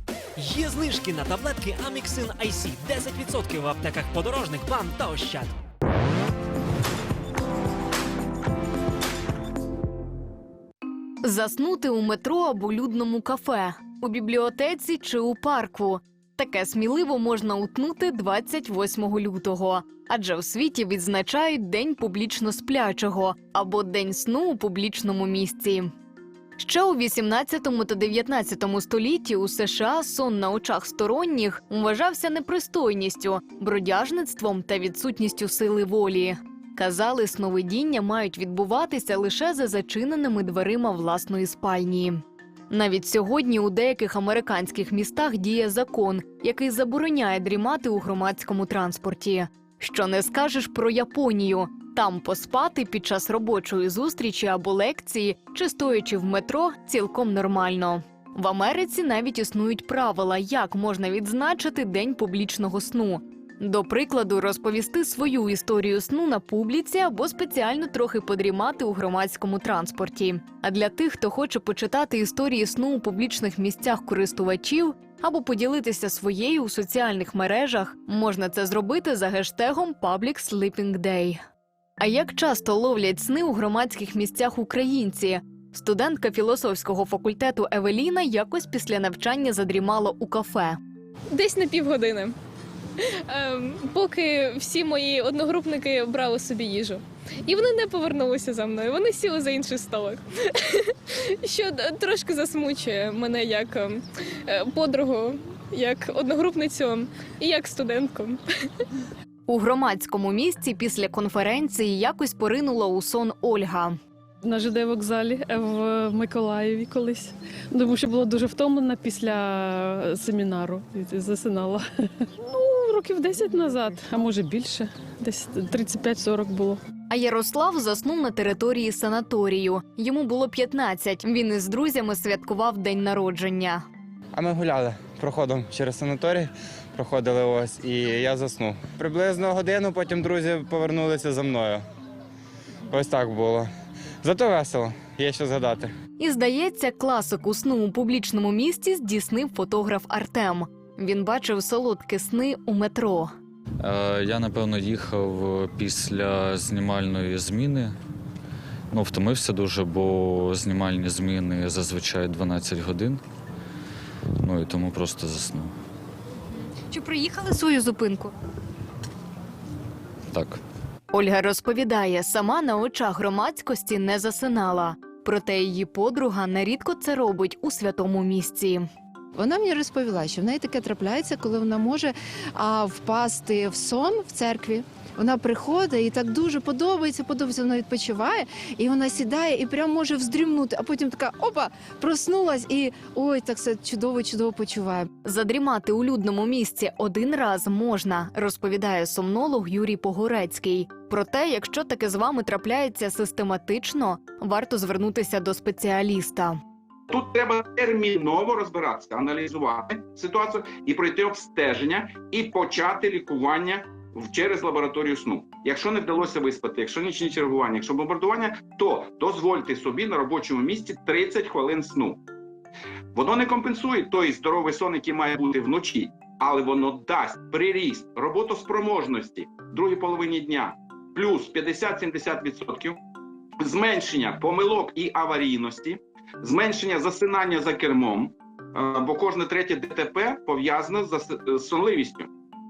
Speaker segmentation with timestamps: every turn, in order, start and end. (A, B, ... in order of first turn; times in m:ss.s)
0:00.4-0:05.5 A
0:11.2-0:25.9 B
0:26.6-1:21.4 B
1:22.0-1:30.8 B
1:31.3-1:32.3 C
1:33.0-1:48.4 C
1:49.5-1:54.0 B
1:54.4-2:06.8 D
2:07.1-2:13.8 B
2:14.3-2:21.8 E
2:22.9-2:23.7 E
2:24.2-2:25.9 E
2:26.2-2:33.3 B
2:33.8-2:37.9 F
2:38.9-2:43.2 F
2:44.4-2:45.7 F
2:46.7-2:48.3 B
2:50.3-2:50.6 F
2:51.1-2:58.8 B
2:59.4-3:15.1 G
3:15.2-3:26.6 B
3:27.1-3:42.2 H
3:43.1-3:53.0 H
3:53.6-4:02.3 H